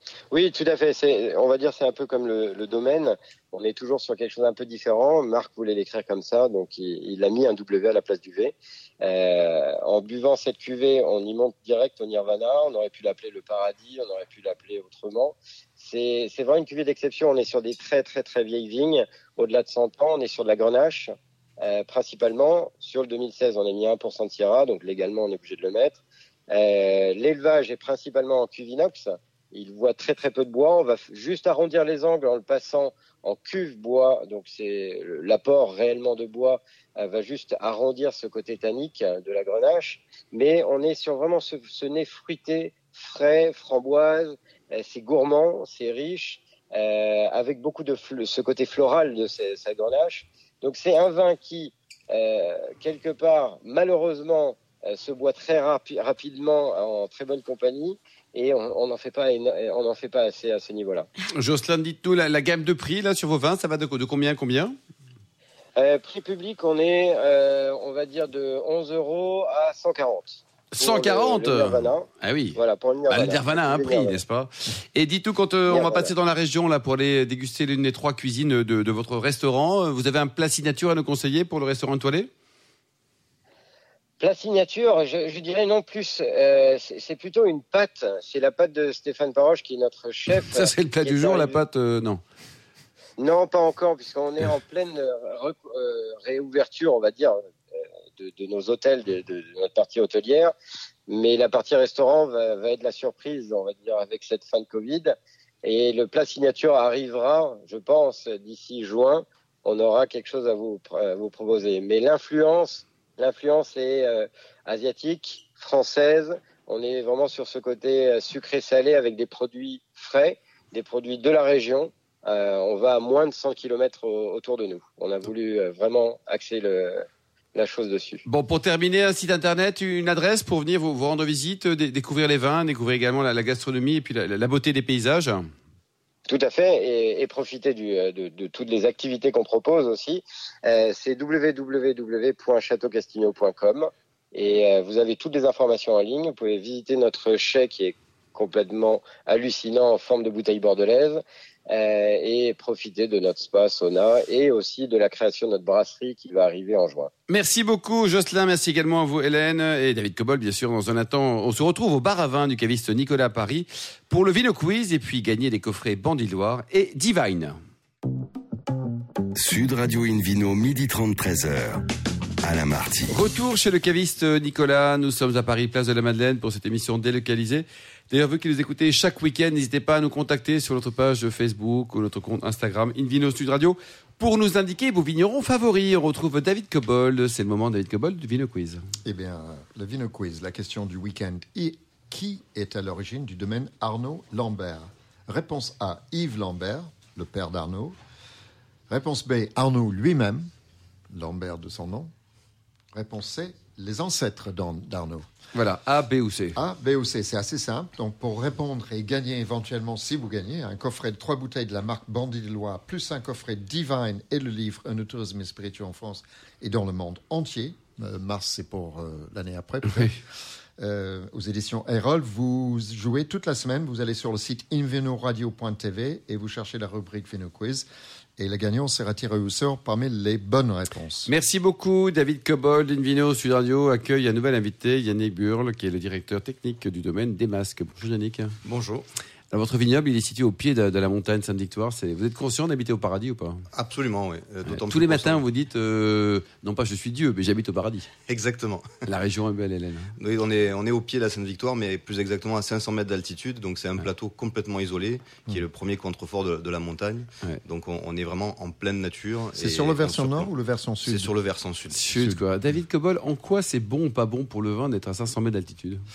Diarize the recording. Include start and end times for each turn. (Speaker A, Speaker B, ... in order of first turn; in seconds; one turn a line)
Speaker A: 0.3-61.1
Speaker B: 61.3-64.8
Speaker A: 65.8-74.2
Speaker B: 70.7-82.3
Speaker A: 75.7-76.1
Speaker A: 84.2-91.6
Speaker B: 90.3-92.2
Speaker A: 93.2-97.4
Speaker A: 98.2-100.5
Speaker A: 101.1-128.2
Speaker B: 128.2-135.5
Speaker A: 136.3-157.1
Speaker B: 157.3-167.6
Speaker C: 169.4-171.8
Speaker C: 172.4-173.2
Speaker B: 173.1-188.8
Speaker D: 189.1-197.9
Speaker D: 198.9-200.5
Speaker D: 201.1-202.1
Speaker D: 202.9-205.2
Speaker B: 205.6-206.6
Speaker D: 206.6-220.2
Speaker D: 220.8-227.9
Speaker D: 228.4-231.3
Speaker B: 231.3-238.6
Speaker E: 238.7-239.1
Speaker B: 239.5-243.7
Speaker E: 243.7-245.4
Speaker B: 244.7-248.1
Speaker E: 248.3-249.1
Speaker B: 249.1-250.2
Speaker E: 250.2-260.5
Speaker D: 259.6-261.3
Speaker E: 261.1-262.2
Speaker B: 261.9-266.1